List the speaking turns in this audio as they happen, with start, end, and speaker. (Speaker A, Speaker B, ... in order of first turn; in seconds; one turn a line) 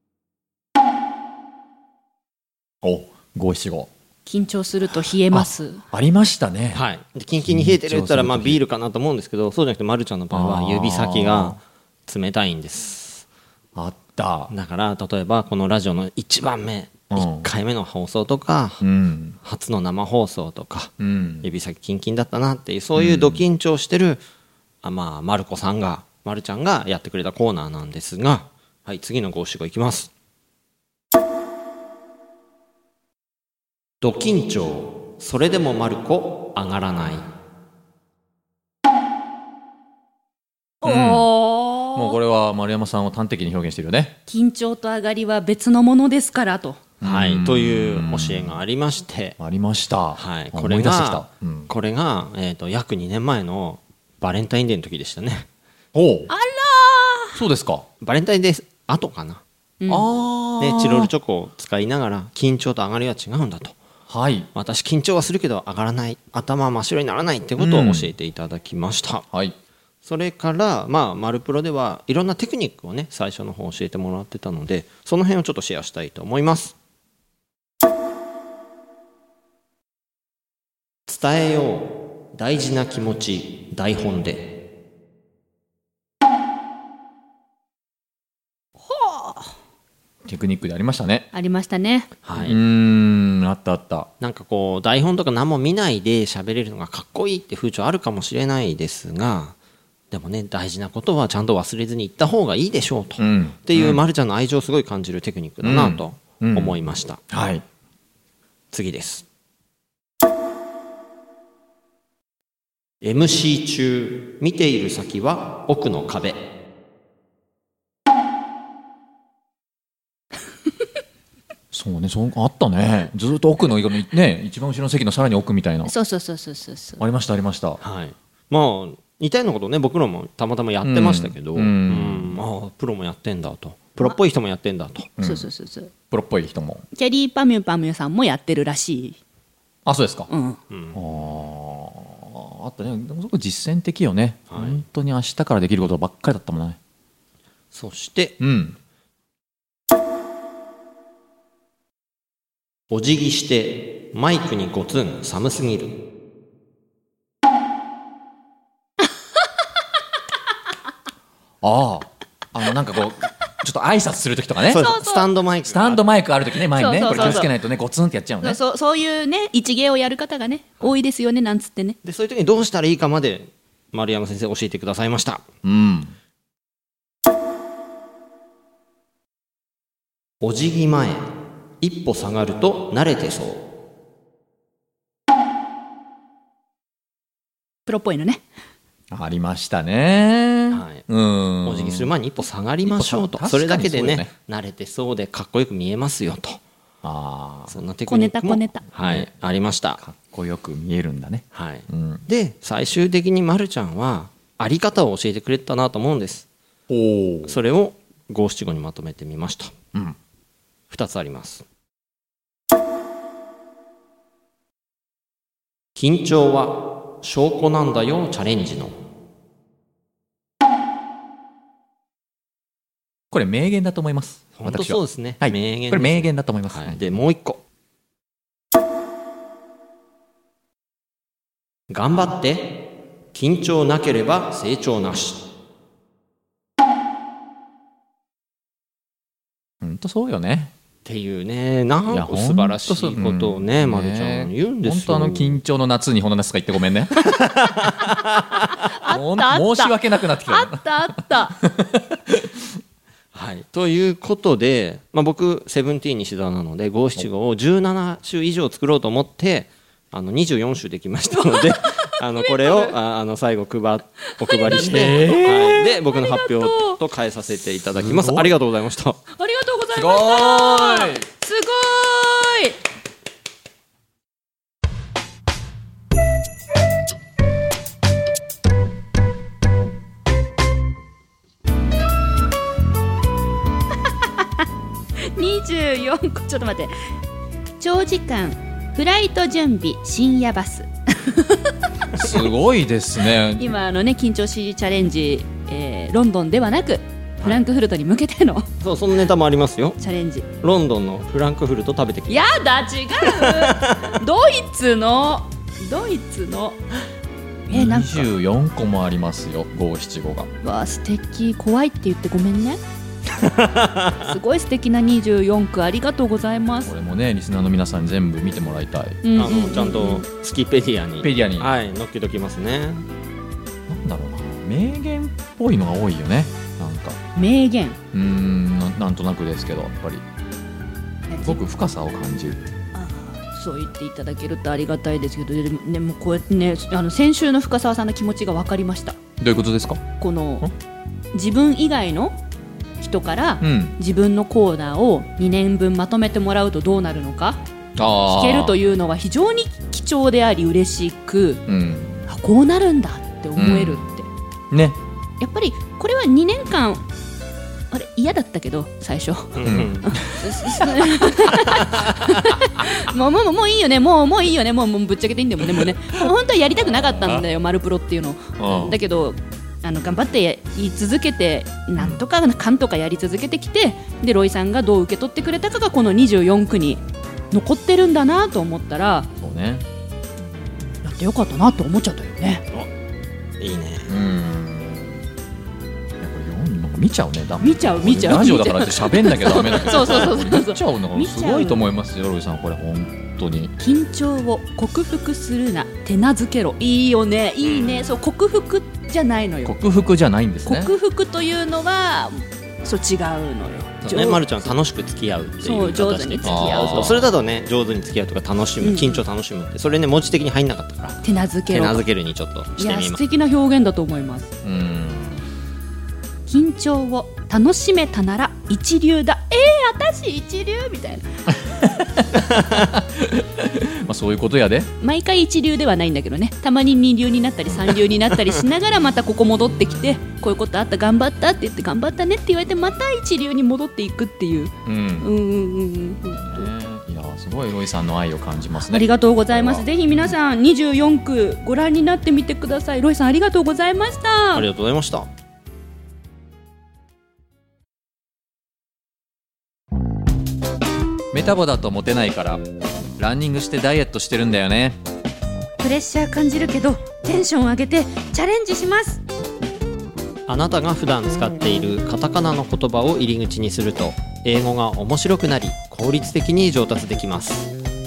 Speaker A: 2.8-3.9
Speaker B: 4.3-5.8
Speaker A: 5.3-6.8
Speaker C: 6.7-13.3
Speaker A: 7.5-8.6
Speaker A: 10.3-11.6
Speaker A: 13.8-14.5
Speaker C: 14.5-18.8
Speaker A: 17.1-17.5
Speaker A: 18.8-19.4
Speaker C: 19.4-24.2
Speaker A: 21.0-21.5
Speaker A: 23.0-23.4
Speaker C: 24.8-30.1
Speaker C: 34.0-37.3
Speaker B: 40.8-42.2
Speaker A: 40.8-41.3
Speaker A: 41.9-44.2
Speaker B: 44.3-46.8
Speaker A: 47.0-48.6
Speaker C: 47.0-49.4
Speaker A: 49.4-51.7
Speaker C: 50.2-55.5
Speaker A: 55.9-56.3
Speaker B: 56.3-57.4
Speaker A: 57.4-57.9
Speaker C: 58.0-59.4
Speaker B: 59.8-60.1
Speaker A: 59.9-61.1
Speaker C: 60.6-63.8
Speaker A: 64.1-64.5
Speaker C: 64.5-69.2
Speaker A: 67.6-68.1
Speaker C: 70.0-76.8
Speaker C: 81.1-84.6
Speaker B: 88.9-89.5
Speaker A: 90.3-91.3
Speaker B: 91.3-92.1
Speaker C: 92.2-92.6
Speaker A: 92.4-94.1
Speaker C: 94.2-99.6
Speaker C: 100.1-107.2
Speaker A: 103.2-104.0
Speaker A: 105.6-106.8
Speaker A: 107.3-107.6
Speaker C: 108.7-109.3
Speaker C: 113.0-116.5
Speaker A: 121.7-125.9
Speaker B: 125.9-127.0
Speaker A: 127.0-127.8
Speaker C: 127.8-135.1
Speaker A: 130.8-132.4
Speaker A: 135.2-135.5
Speaker B: 135.2-135.9
Speaker A: 136.1-136.8
Speaker B: 136.9-139.2
Speaker A: 139.9-140.3
Speaker B: 140.3-140.6
Speaker C: 140.7-141.0
Speaker A: 140.9-146.8
Speaker C: 144.5-144.8
Speaker C: 147.7-148.4
Speaker A: 148.4-148.8
Speaker C: 152.9-156.1
Speaker A: 161.6-164.9
Speaker C: 164.6-166.0
Speaker B: 164.8-165.3
Speaker A: 165.7-168.6
Speaker B: 166.7-167.5
Speaker C: 167.0-167.5
Speaker B: 168.4-172.0
Speaker C: 172.0-175.4
Speaker A: 175.6-176.1
Speaker C: 180.4-183.7
Speaker B: 187.9-188.4
Speaker A: 189.1-192.1
Speaker C: 190.7-191.1
Speaker C: 191.6-196.6
Speaker A: 192.8-194.3
Speaker A: 197.0-197.8
Speaker C: 197.7-200.0
Speaker B: 198.1-198.8
Speaker A: 199.0-199.3
Speaker A: 200.0-202.2
Speaker C: 201.5-206.5
Speaker A: 206.9-207.6
Speaker C: 207.5-209.7
Speaker C: 210.9-211.7
Speaker C: 216.0-219.0
Speaker A: 223.3-227.0
Speaker C: 224.6-227.6
Speaker C: 231.9-235.5
Speaker A: 239.8-240.7
Speaker C: 241.1-245.6
Speaker A: 242.1-247.2
Speaker C: 247.4-247.8
Speaker B: 248.6-251.6
Speaker A: 249.1-252.6
Speaker C: 253.3-269.2
Speaker B: 261.4-262.9
Speaker B: 264.3-264.9
Speaker A: 264.7-266.0
Speaker B: 266.0-267.0
Speaker A: 268.0-268.5
Speaker B: 269.3-272.8
Speaker A: 269.9-271.3
Speaker B: 285.2-286.9
Speaker B: 287.8-291.6
Speaker A: 292.2-293.8
Speaker B: 293.6-298.7
Speaker C: 298.8-300.0
Speaker B: 300.0-300.5
Speaker C: 300.6-302.5
Speaker B: 302.3-306.8
Speaker C: 303.2-304.2
Speaker B: 307.7-308.3
Speaker A: 307.7-310.5
Speaker B: 310.6-312.8
Speaker C: 313.3-314.4
Speaker B: 314.2-316.9
Speaker A: 316.9-319.2
Speaker B: 319.2-320.3
Speaker C: 319.4-323.1
Speaker A: 321.2-321.7
Speaker A: 323.9-327.2
Speaker B: 327.4-328.0
Speaker A: 328.1-330.2
Speaker B: 331.3-331.6
Speaker A: 331.4-332.6
Speaker B: 332.9-339.2
Speaker A: 339.4-340.0
Speaker B: 340.2-340.7
Speaker B: 341.3-342.4
Speaker B: 343.0-347.6
Speaker A: 343.6-344.0
Speaker A: 348.0-348.8
Speaker B: 348.3-351.6
Speaker A: 351.7-352.2
Speaker B: 352.3-354.3
Speaker A: 353.6-354.1
Speaker A: 354.7-355.0
Speaker B: 355.4-357.1
Speaker B: 357.9-379.3
Speaker C: 359.6-360.2
Speaker A: 359.6-360.8
Speaker A: 366.9-367.5
Speaker A: 368.6-369.0
Speaker A: 372.0-372.2
Speaker A: 379.4-379.9
Speaker B: 381.0-382.6
Speaker C: 383.6-384.1
Speaker A: 384.1-385.2
Speaker A: 386.2-393.7
Speaker B: 387.6-391.9
Speaker B: 393.8-399.7
Speaker C: 397.6-398.1
Speaker A: 399.6-400.9
Speaker B: 400.6-404.7
Speaker C: 404.0-413.2
Speaker B: 405.6-407.2
Speaker A: 406.4-407.3
Speaker B: 408.8-409.2
Speaker B: 411.2-412.1
Speaker B: 412.8-414.5
Speaker A: 414.6-415.4
Speaker B: 416.5-421.3
Speaker A: 421.7-424.9
Speaker B: 425.0-436.7
Speaker A: 434.9-435.3
Speaker A: 436.3-439.9
Speaker B: 438.8-444.7
Speaker C: 444.5-445.3
Speaker A: 451.3-452.6
Speaker A: 453.2-455.0
Speaker B: 455.8-459.2
Speaker C: 460.5-467.7